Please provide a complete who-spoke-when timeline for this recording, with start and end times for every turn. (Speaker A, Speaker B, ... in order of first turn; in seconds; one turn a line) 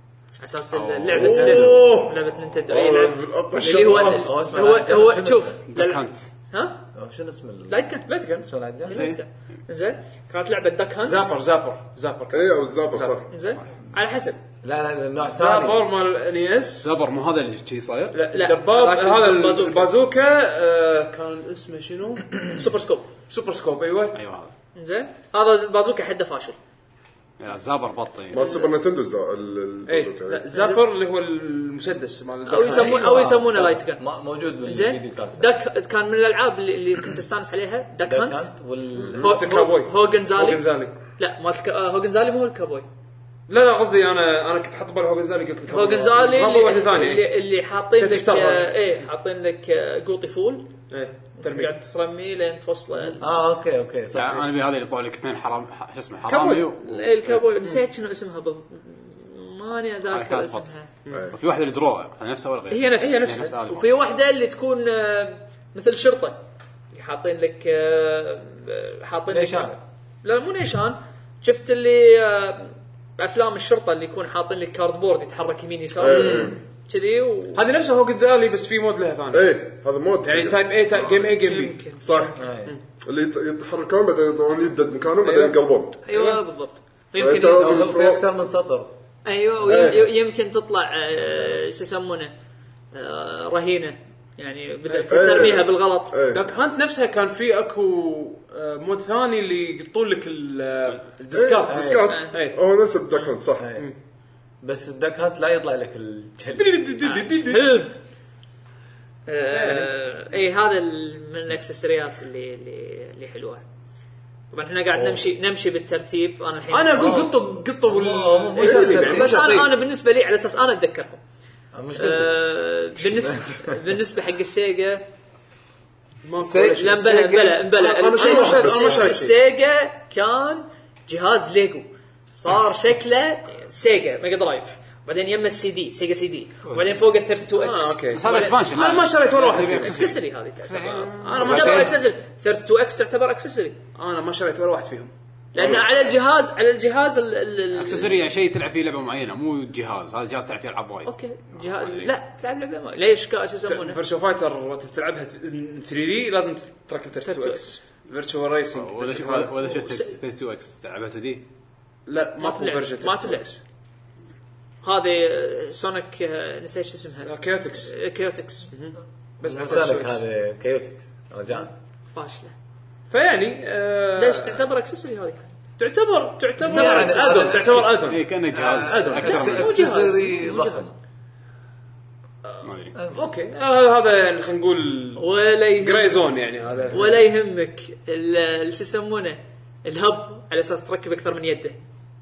Speaker A: 0.4-6.9
Speaker B: 0.7-1.8
Speaker C: 1.1-4.3
Speaker D: 1.3-1.7
Speaker E: 3.8-5.6
Speaker B: 5.7-6.3
Speaker E: 6.9-9.1
Speaker A: 7.7-11.3
Speaker D: 8.1-8.4
Speaker B: 8.9-9.2
Speaker D: 11.0-13.2
Speaker C: 12.3-13.2
Speaker A: 13.3-14.4
Speaker E: 14.6-15.8
Speaker D: 15.2-16.9
Speaker B: 16.8-18.2
Speaker D: 18.1-22.6
Speaker A: 18.3-19.9
Speaker A: 22.5-23.1
Speaker D: 23.3-24.2
Speaker B: 24.1-24.5
Speaker A: 24.7-26.6
Speaker B: 27.4-28.4
Speaker C: 28.3-30.4
Speaker A: 28.4-28.7
Speaker D: 29.9-33.2
Speaker A: 30.5-30.8
Speaker A: 32.5-34.0
Speaker E: 32.6-35.5
Speaker A: 34.6-38.5
Speaker E: 38.0-39.5
Speaker D: 39.1-40.9
Speaker A: 39.2-42.9
Speaker D: 43.5-47.3
Speaker A: 45.7-50.7
Speaker D: 48.0-48.9
Speaker D: 50.9-51.7
Speaker A: 51.4-53.4
Speaker E: 53.2-54.5
Speaker B: 54.1-57.4
Speaker D: 56.2-56.7
Speaker A: 56.6-60.9
Speaker B: 60.1-60.7
Speaker D: 61.0-61.3
Speaker B: 61.3-63.9
Speaker A: 62.7-66.4
Speaker D: 63.0-63.5
Speaker A: 66.9-77.6
Speaker E: 69.3-69.8
Speaker C: 76.0-76.6
Speaker D: 76.1-76.5
Speaker D: 77.5-79.6
Speaker C: 79.3-80.6
Speaker D: 80.2-81.8
Speaker A: 80.9-82.3
Speaker C: 82.0-82.4
Speaker E: 82.3-82.7
Speaker C: 83.0-86.0
Speaker D: 85.2-85.5
Speaker A: 86.0-87.9
Speaker D: 86.1-86.4
Speaker C: 87.2-88.2
Speaker E: 87.5-88.9
Speaker A: 89.2-92.3
Speaker C: 89.6-90.1
Speaker A: 92.9-96.2
Speaker C: 95.1-96.4
Speaker D: 96.3-102.6
Speaker C: 101.3-103.7
Speaker E: 101.7-102.0
Speaker A: 101.9-102.3
Speaker E: 103.6-103.9
Speaker E: 104.6-107.3
Speaker D: 106.5-107.7
Speaker A: 107.0-108.0
Speaker A: 109.3-113.6
Speaker D: 109.5-109.9
Speaker A: 114.5-117.2
Speaker E: 115.0-115.2
Speaker D: 116.7-119.7
Speaker E: 117.0-119.4
Speaker A: 118.6-121.2
Speaker E: 121.7-122.4
Speaker A: 121.9-125.0
Speaker E: 123.1-123.6
Speaker D: 126.2-127.0
Speaker E: 126.4-127.7
Speaker A: 126.7-138.0
Speaker C: 127.7-129.1
Speaker D: 128.1-129.3
Speaker D: 137.5-140.1
Speaker B: 138.1-141.8
Speaker A: 139.7-143.8
Speaker D: 141.2-141.9
Speaker E: 141.4-141.9
Speaker D: 143.9-145.8
Speaker A: 145.5-148.2
Speaker B: 147.8-152.1
Speaker A: 151.0-154.0
Speaker D: 153.7-159.6
Speaker A: 157.2-157.8
Speaker B: 158.7-161.4
Speaker A: 159.6-160.1
Speaker D: 162.1-163.6
Speaker A: 162.4-163.5
Speaker A: 164.8-168.7
Speaker D: 167.2-167.9
Speaker D: 168.7-170.2
Speaker E: 169.4-171.7
Speaker A: 172.1-172.5
Speaker D: 173.1-174.6
Speaker A: 174.1-175.5
Speaker D: 175.8-180.7
Speaker E: 176.6-178.0
Speaker A: 176.6-177.7
Speaker B: 177.8-179.9
Speaker E: 178.5-180.9
Speaker A: 179.2-180.9
Speaker D: 182.4-185.2
Speaker B: 182.6-182.9
Speaker E: 182.9-183.2
Speaker A: 185.2-186.2
Speaker D: 185.8-187.2
Speaker A: 186.9-191.8